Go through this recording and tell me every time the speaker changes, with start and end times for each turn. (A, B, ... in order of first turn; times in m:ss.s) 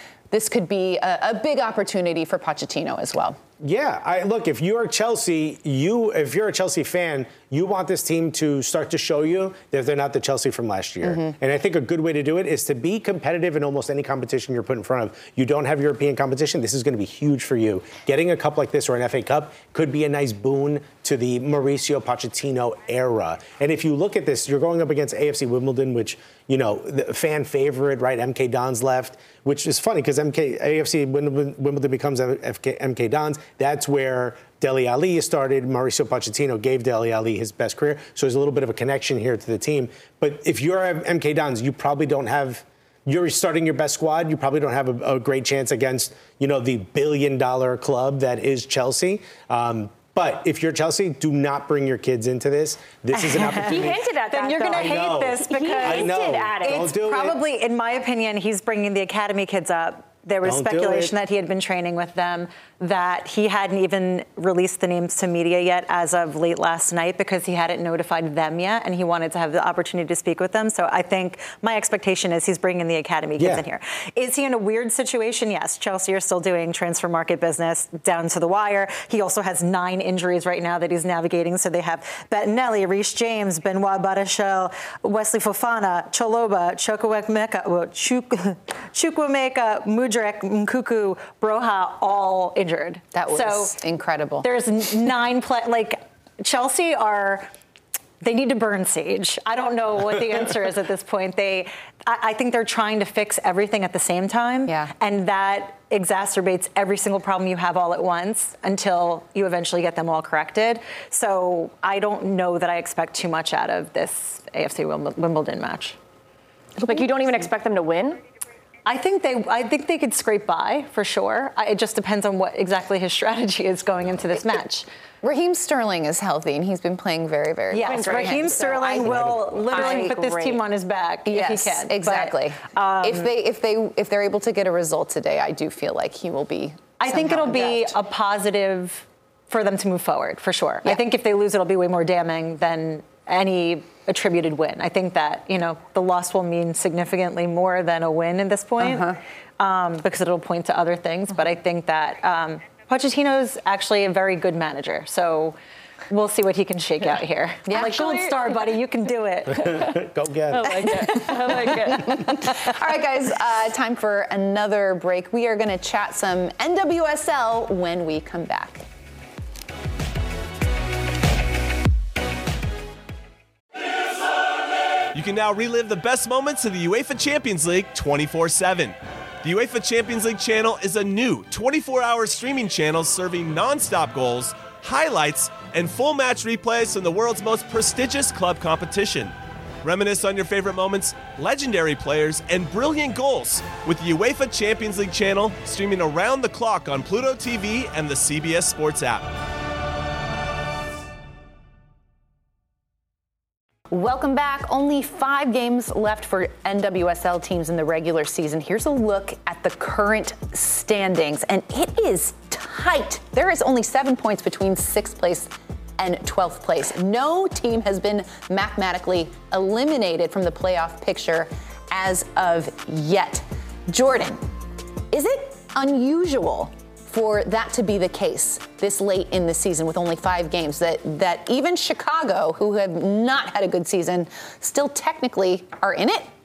0:00.3-0:03.4 A
0:03.6-0:54.1 B
0:11.0-0:11.3 A
0:53.1-0:53.8 C
0:53.5-0:56.9 D
0:54.3-1:33.7 C
0:54.7-0:57.4 B
1:00.4-1:01.1 B
1:13.4-1:13.6 B
1:33.1-1:34.4 A
1:34.4-1:37.5 C
1:38.2-1:56.0 C
1:56.8-1:58.2 D
1:58.8-2:04.9 C
2:05.2-2:10.1 A
2:07.7-2:13.3 C
2:07.8-2:08.7 D
2:09.1-2:09.5 B
2:09.7-2:10.6 D
2:11.2-2:18.0 A
2:17.0-2:29.1 C
2:28.8-2:29.2 A
2:29.6-2:35.6 C
2:36.1-2:39.8 C
2:37.7-2:38.1 A
2:37.8-2:38.2 D
2:39.5-2:41.2 B
2:40.5-2:42.4 D
2:40.8-2:48.8 A
2:55.1-3:19.3 E
3:23.9-3:44.4 A
3:45.1-3:56.2 A